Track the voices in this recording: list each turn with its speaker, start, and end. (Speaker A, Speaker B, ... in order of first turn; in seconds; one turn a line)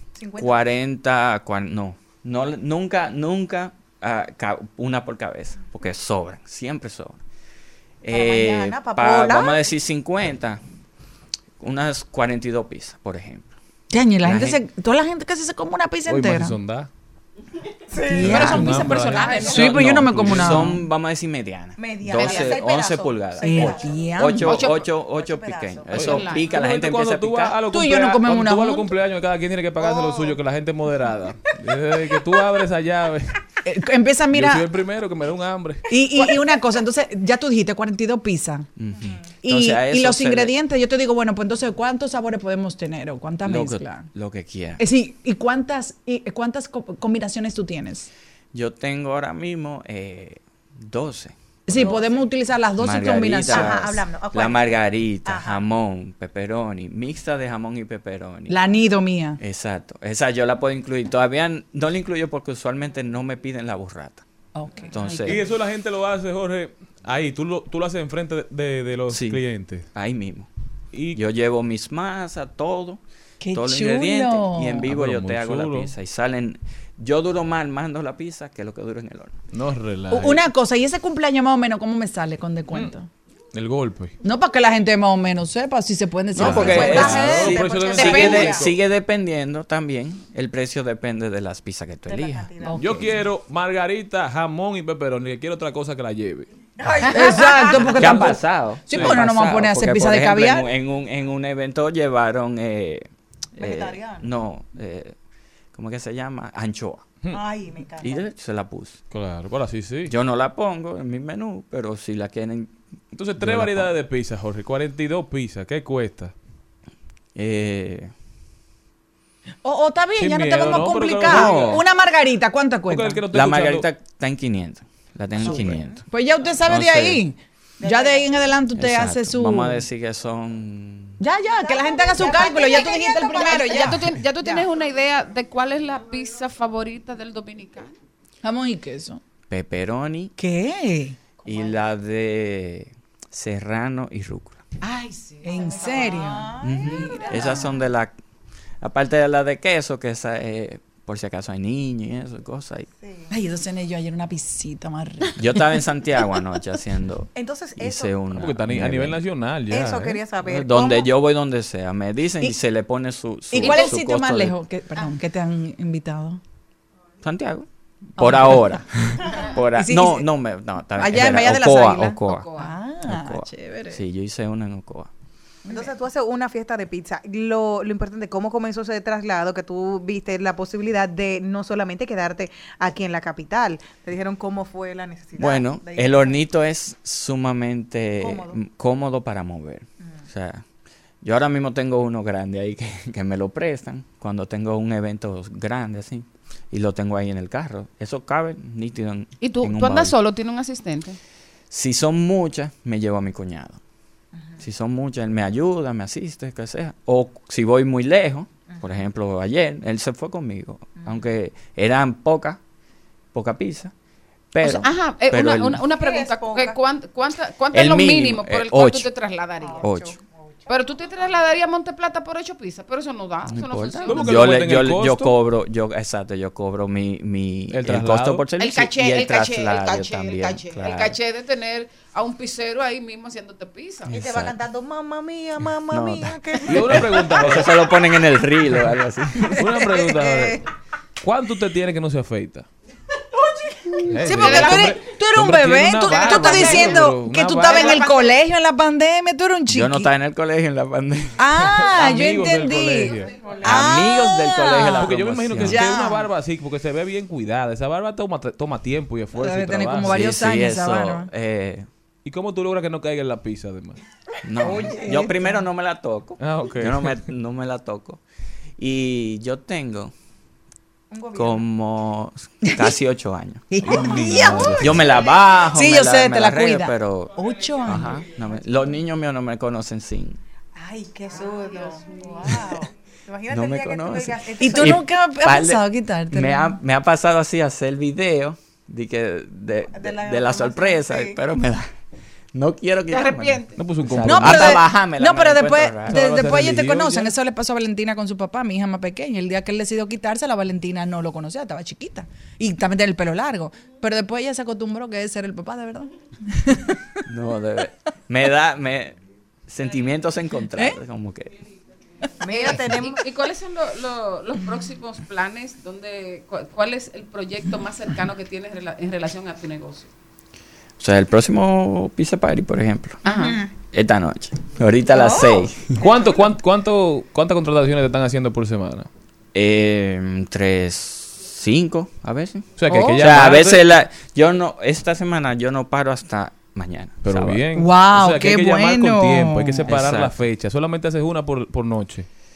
Speaker A: 0.2-0.7
Speaker B: 0.4-7.2
Speaker B: 8.0-10.6
Speaker A: 8.1-9.7
Speaker B: 11.6-13.5
Speaker C: 13.9-16.6
Speaker B: 14.2-14.6
Speaker D: 16.1-16.9
Speaker A: 17.9-19.7
Speaker C: 18.1-20.8
Speaker D: 18.2-20.8
Speaker E: 18.2-20.1
Speaker B: 19.6-27.6
Speaker A: 21.8-26.2
Speaker C: 23.4-24.7
Speaker E: 24.4-24.9
Speaker D: 25.9-33.4
Speaker E: 26.1-26.5
Speaker C: 27.7-28.9
Speaker A: 29.8-30.4
Speaker C: 33.6-34.7
Speaker D: 34.3-35.9
Speaker C: 35.9-38.7
Speaker B: 38.8-40.5
Speaker C: 39.4-44.1
Speaker B: 43.4-44.8
Speaker C: 44.8-48.1
Speaker B: 48.5-51.9
Speaker C: 51.7-53.8
Speaker A: 51.7-52.1
Speaker B: 52.8-58.6
Speaker A: 53.5-55.6
Speaker C: 58.5-59.4
Speaker B: 59.4-64.2
Speaker C: 64.5-64.9
Speaker B: 64.9-65.4
Speaker E: 65.0-65.4
Speaker D: 65.2-69.9
Speaker B: 69.1-70.5
Speaker D: 70.9-71.2
Speaker B: 71.1-73.0
Speaker C: 73.4-74.9
Speaker B: 73.5-79.4
Speaker D: 74.8-75.9
Speaker D: 79.5-80.4
Speaker C: 80.1-83.1
Speaker D: 83.5-84.2
Speaker C: 84.2-87.6
Speaker B: 86.3-92.6
Speaker D: 86.4-88.7
Speaker A: 86.6-88.7
Speaker E: 87.9-88.4
Speaker A: 92.1-92.8
Speaker C: 92.6-93.2
Speaker D: 92.8-96.5
Speaker A: 96.8-98.0
Speaker C: 97.1-100.7
Speaker B: 97.8-105.2
Speaker D: 98.0-98.4
Speaker D: 98.9-99.2
Speaker A: 103.6-104.3
Speaker B: 105.7-107.2
Speaker A: 107.3-108.3
Speaker B: 108.0-109.0
Speaker D: 109.1-110.1
Speaker B: 110.1-112.8
Speaker D: 113.1-116.3
Speaker B: 113.4-113.9
Speaker B: 117.3-118.1
Speaker C: 119.6-123.2
Speaker D: 120.2-121.8
Speaker B: 121.2-121.8
Speaker D: 122.9-123.9
Speaker B: 123.3-126.0
Speaker C: 125.5-129.8
Speaker B: 126.6-127.2
Speaker A: 127.8-128.4
Speaker B: 128.7-131.2
Speaker C: 131.2-134.7
Speaker A: 131.6-134.1
Speaker E: 133.5-138.0
Speaker C: 138.4-139.2
Speaker B: 139.5-140.3
Speaker C: 140.4-141.2
Speaker A: 141.4-141.8
Speaker B: 141.4-144.7
Speaker C: 144.8-147.8
Speaker A: 145.3-147.7
Speaker B: 146.6-148.1
Speaker B: 148.8-152.9
Speaker A: 153.0-153.3
Speaker C: 153.3-155.3
Speaker B: 155.4-159.2
Speaker A: 157.3-158.2
Speaker D: 158.3-160.2
Speaker A: 159.7-161.1
Speaker B: 160.4-164.6
Speaker C: 163.5-166.4
Speaker E: 163.6-163.9
Speaker B: 167.2-175.1
Speaker C: 168.2-168.8
Speaker C: 169.8-170.3
Speaker C: 171.0-174.0
Speaker E: 172.3-172.7
Speaker A: 175.7-186.4
Speaker B: 185.4-190.7
Speaker A: 188.2-188.6
Speaker B: 191.2-200.2
Speaker E: 199.4-201.2
Speaker B: 201.7-203.8
Speaker A: 204.3-204.6
Speaker B: 204.6-212.6
Speaker A: 208.7-209.0
Speaker A: 211.0-211.3
Speaker B: 213.3-213.9
Speaker B: 214.5-215.8
Speaker E: 214.7-219.9
Speaker A: 215.9-216.8
Speaker B: 217.7-219.1
Speaker A: 219.6-221.3
Speaker B: 219.8-220.2
Speaker E: 220.7-224.4
Speaker B: 223.5-231.2
Speaker D: 224.1-225.4
Speaker D: 227.7-228.5
Speaker E: 228.6-234.1
Speaker A: 234.1-237.4
Speaker B: 234.1-234.6
Speaker B: 235.9-239.7
Speaker D: 236.7-238.0
Speaker A: 239.5-240.6
Speaker D: 239.6-240.6
Speaker D: 241.2-242.7
Speaker D: 244.1-248.1
Speaker C: 244.2-250.1
Speaker E: 244.3-245.0
Speaker A: 246.1-246.9
Speaker B: 249.7-251.4
Speaker C: 251.4-255.1
Speaker D: 251.6-253.5
Speaker B: 253.5-256.0
Speaker D: 255.0-260.2
Speaker C: 255.7-256.3
Speaker C: 259.4-261.3
Speaker B: 260.0-261.9
Speaker D: 262.2-264.0
Speaker B: 264.4-268.2
Speaker A: 264.6-265.6
Speaker C: 264.7-265.2
Speaker D: 266.4-267.2
Speaker B: 268.8-270.1
Speaker A: 271.1-271.6
Speaker B: 271.4-273.7
Speaker C: 273.7-275.0
Speaker D: 273.8-275.4
Speaker B: 274.8-280.4
Speaker C: 275.7-278.2
Speaker A: 280.8-285.0
Speaker B: 283.5-291.9
Speaker C: 284.6-286.8
Speaker A: 289.9-291.4
Speaker B: 292.5-296.3
Speaker E: 293.1-293.8
Speaker D: 293.8-294.8
Speaker C: 294.2-307.1
Speaker D: 296.1-297.4
Speaker B: 307.3-311.6
Speaker A: 312.4-313.3
Speaker E: 312.5-320.1
Speaker B: 321.0-323.2
Speaker E: 323.2-323.6
Speaker A: 323.3-323.7
Speaker B: 323.8-326.0
Speaker A: 325.1-326.4
Speaker D: 325.9-329.1
Speaker B: 329.5-337.7
Speaker D: 332.8-333.9
Speaker C: 332.9-333.2
Speaker D: 337.2-342.3
Speaker C: 337.8-339.9
Speaker B: 339.8-340.4